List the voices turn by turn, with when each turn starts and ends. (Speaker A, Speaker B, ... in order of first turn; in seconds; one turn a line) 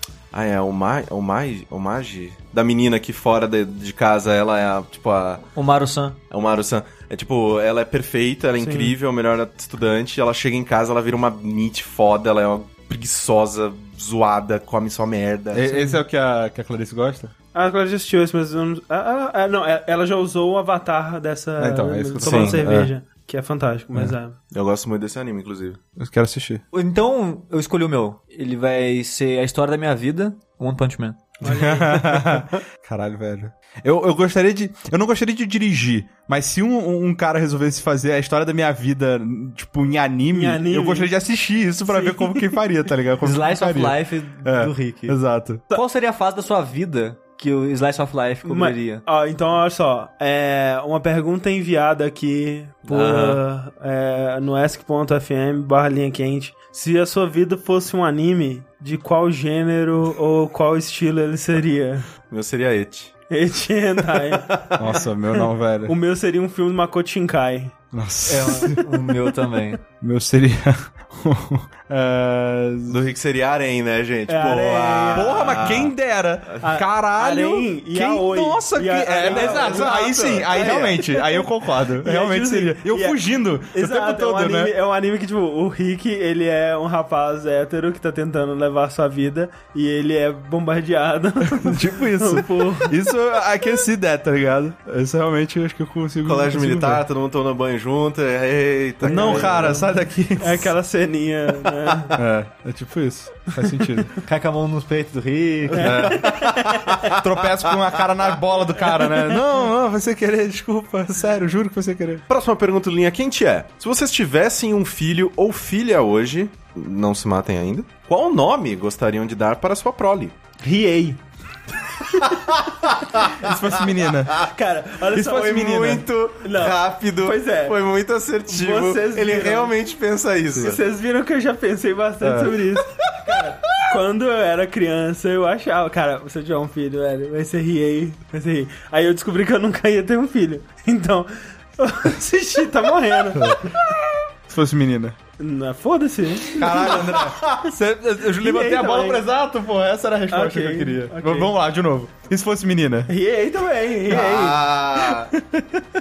Speaker A: 0.3-5.5
Speaker B: 5.6-6.2
Speaker A: 6.3-15.7
Speaker C: 8.6-8.9
Speaker D: 15.5-17.3
Speaker C: 15.7-16.0
Speaker C: 17.5-24.4
Speaker D: 21.6-22.9
Speaker A: 22.2-22.6
Speaker A: 24.5-25.8
Speaker D: 26.0-26.6
Speaker B: 26.7-31.4
Speaker C: 31.4-32.3
Speaker D: 31.4-45.6
Speaker C: 40.3-41.1
Speaker C: 41.9-42.6
Speaker B: 43.2-45.2
Speaker B: 45.7-49.0
Speaker C: 48.5-62.1
Speaker A: 52.9-53.4
Speaker A: 62.3-63.1
Speaker C: 63.3-64.8
Speaker A: 64.3-64.9
Speaker D: 64.8-66.0
Speaker C: 65.4-67.8
Speaker D: 67.9-68.9
Speaker B: 68.3-69.8
Speaker D: 70.0-73.0
Speaker A: 72.9-76.0
Speaker C: 74.3-75.7
Speaker D: 75.1-84.7
Speaker C: 76.6-83.2
Speaker A: 79.2-81.0
Speaker C: 83.7-93.0
Speaker D: 91.5-97.0
Speaker A: 96.2-99.9
Speaker C: 99.0-102.2
Speaker D: 99.0-100.7
Speaker D: 102.2-104.1
Speaker B: 104.2-106.3
Speaker C: 105.8-107.1
Speaker D: 105.8-112.2
Speaker A: 106.1-107.2
Speaker A: 112.3-120.3
Speaker C: 120.6-121.2
Speaker A: 122.6-123.8
Speaker D: 123.3-124.4
Speaker C: 124.4-127.8
Speaker A: 125.1-130.8
Speaker D: 125.4-126.0
Speaker C: 128.5-129.8
Speaker C: 130.5-143.8
Speaker D: 132.2-132.6
Speaker D: 143.3-145.2
Speaker C: 145.4-147.2
Speaker D: 146.5-153.1
Speaker C: 148.4-149.2
Speaker C: 150.3-151.5
Speaker C: 153.1-154.7
Speaker A: 154.1-155.3
Speaker D: 155.0-155.8